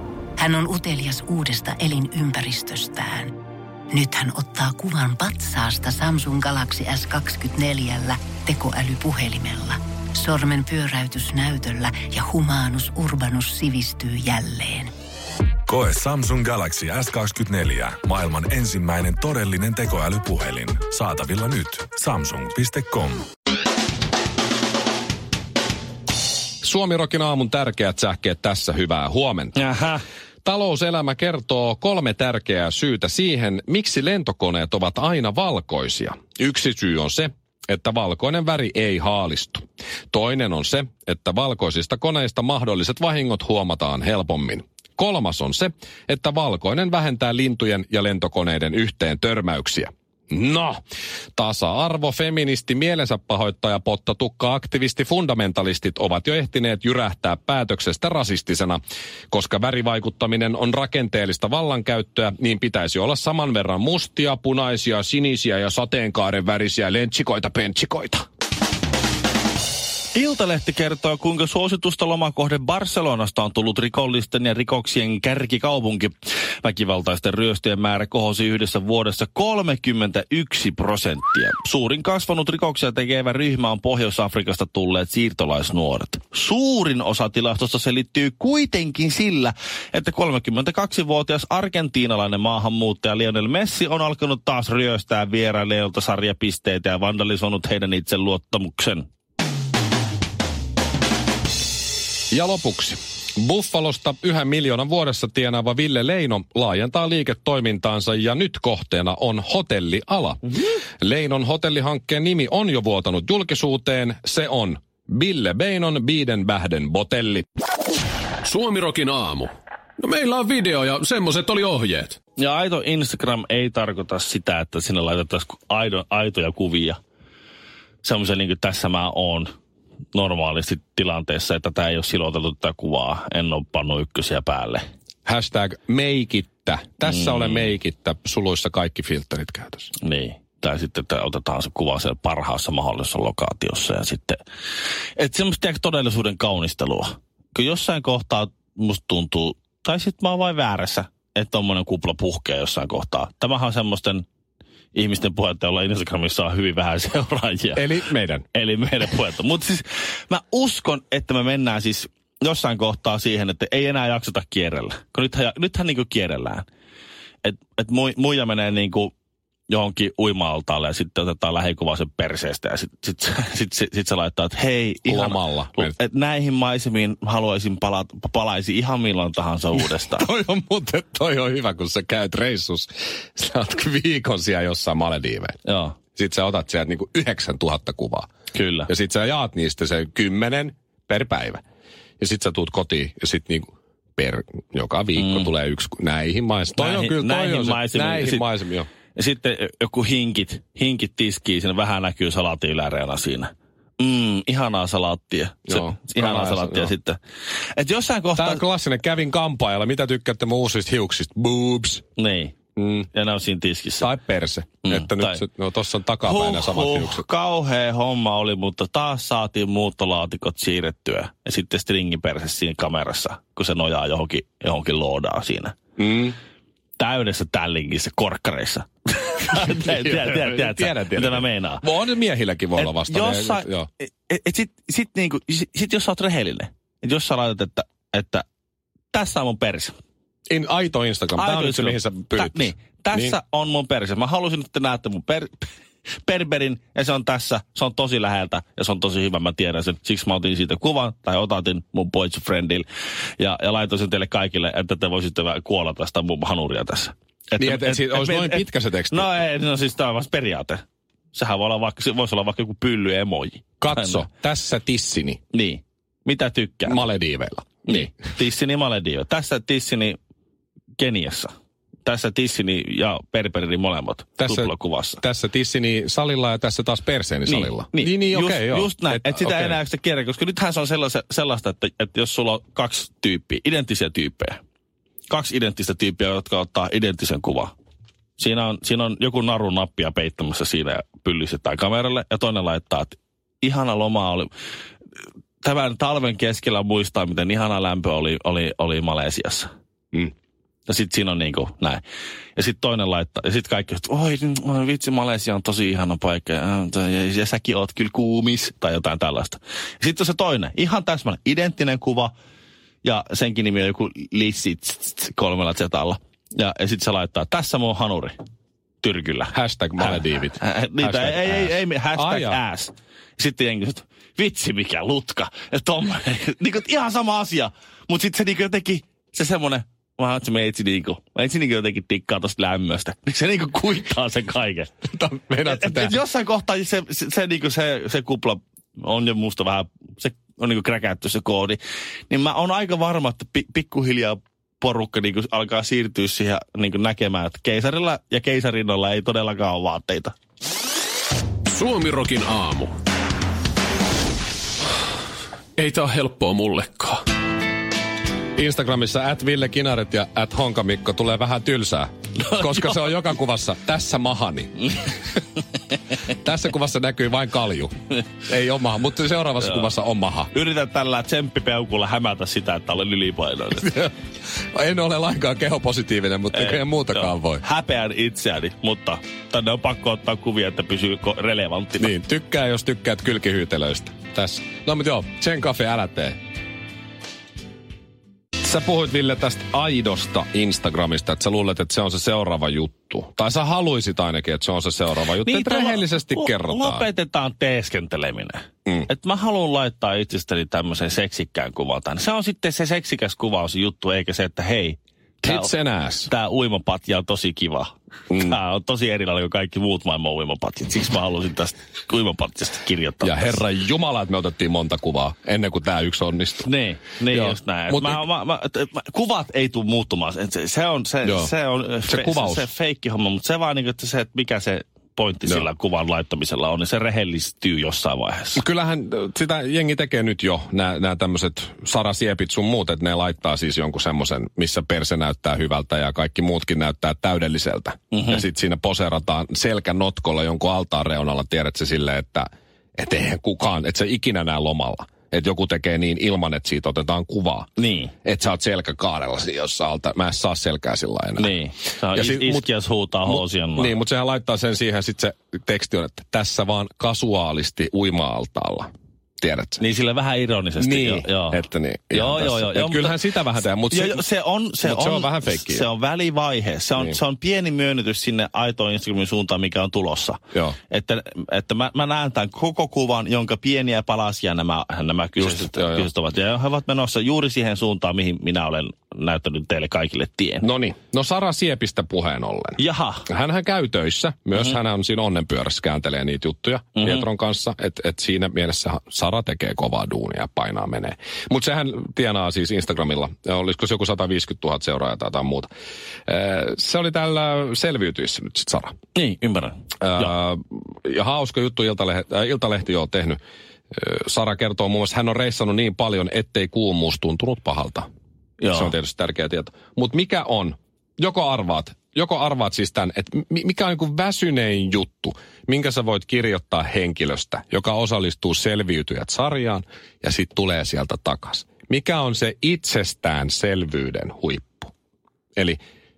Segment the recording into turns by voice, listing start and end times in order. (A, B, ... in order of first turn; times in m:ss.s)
0:00.4-0:03.3 A
0:03.9-0:14.9 A
0:15.7-0:23.2 B
0:26.6-0:29.6 C
0:29.6-0:30.0 D
0:30.4-0:50.8 C
0:51.3-0:58.8 C
0:59.3-1:08.2 C
1:10.1-1:39.1 D
1:42.3-1:50.4 C
1:51.0-1:57.4 C
1:58.4-2:02.2 E
2:02.4-2:07.0 D
2:08.0-2:09.5 D
2:10.1-2:14.8 D
2:15.2-2:19.9 C
2:17.1-2:17.6 D
2:20.0-2:24.4 D
2:25.2-2:34.2 D
2:34.9-2:37.9 D
2:37.7-2:38.5 C
2:38.5-2:46.6 D
2:47.4-2:49.1 D
2:49.7-3:00.2 D
2:55.0-2:55.9 C
2:59.8-3:05.6 C
3:05.6-3:06.0 D
3:06.1-3:08.3 C
3:08.5-3:08.9 D
3:08.9-3:11.6 C
3:12.2-3:18.9 C
3:15.2-3:15.5 D
3:16.8-3:18.4 D
3:19.1-3:27.2 D
3:25.7-3:26.9 C
3:27.7-3:28.6 D
3:28.4-3:32.0 C
3:32.2-3:32.5 D
3:32.8-3:33.1 C
3:33.1-3:34.1 D
3:34.0-3:37.2 C
3:34.8-3:35.4 D
3:36.2-3:45.8 D
3:46.0-3:46.4 C
3:47.0-3:51.8 D
3:49.5-3:53.9 C
3:52.8-3:53.7 D
3:54.3-3:58.4 D
3:59.1-3:59.9 D
4:00.5-4:03.4 C
4:01.4-4:05.7 D
4:06.2-4:12.8 D
4:13.4-4:20.8 D
4:17.6-4:19.3 C
4:21.3-4:24.2 D
4:23.8-4:25.4 C
4:25.5-4:27.0 D
4:26.8-4:28.1 C
4:27.8-4:30.2 D
4:31.0-4:31.5 D
4:32.0-4:35.2 D
4:34.4-4:39.8 C
4:37.5-4:44.6 D
4:45.3-4:47.7 D
4:48.4-4:54.5 D
4:55.6-4:59.7 D
5:00.9-5:02.0 D
5:02.6-5:12.3 D
5:13.0-5:18.4 D
5:19.0-5:34.9 D
5:19.5-5:22.6 C
5:35.1-5:36.2 C
5:35.6-5:41.8 D
5:42.3-5:50.3 D
5:51.7-5:52.9 E
5:55.8-5:57.2 E
5:58.6-6:05.1 C
6:02.4-6:02.9 D
6:06.2-6:10.5 C
6:10.5-6:13.9 D
6:13.7-6:17.6 C
6:16.5-6:22.1 D
6:22.0-6:26.4 C
6:28.6-6:37.0 C
6:35.4-6:45.7 D
6:45.4-6:46.3 C
6:46.3-6:53.6 D
6:48.3-6:48.6 C
6:53.2-6:56.7 C
6:56.6-7:08.6 D
6:57.3-6:58.2 C
7:01.2-7:01.5 C
7:02.1-7:02.7 C
7:08.6-7:27.7 C
7:18.1-7:18.4 D
7:27.8-7:28.1 D
7:28.2-7:31.5 C
7:31.4-7:33.9 D
7:32.1-7:32.6 C
7:33.2-7:39.8 C
7:39.8-7:41.6 D
7:40.8-7:44.2 C
7:42.1-7:43.2 D
7:43.9-8:00.7 D
7:44.8-7:45.8 C
7:55.4-7:56.1 C
8:00.6-8:15.7 C
8:02.8-8:03.2 D
8:07.0-8:07.2 D
8:16.3-8:19.0 C
8:19.1-8:20.3 D
8:20.0-8:23.4 C
8:23.9-8:28.1 C
8:28.6-8:28.9 D
8:28.7-8:44.9 C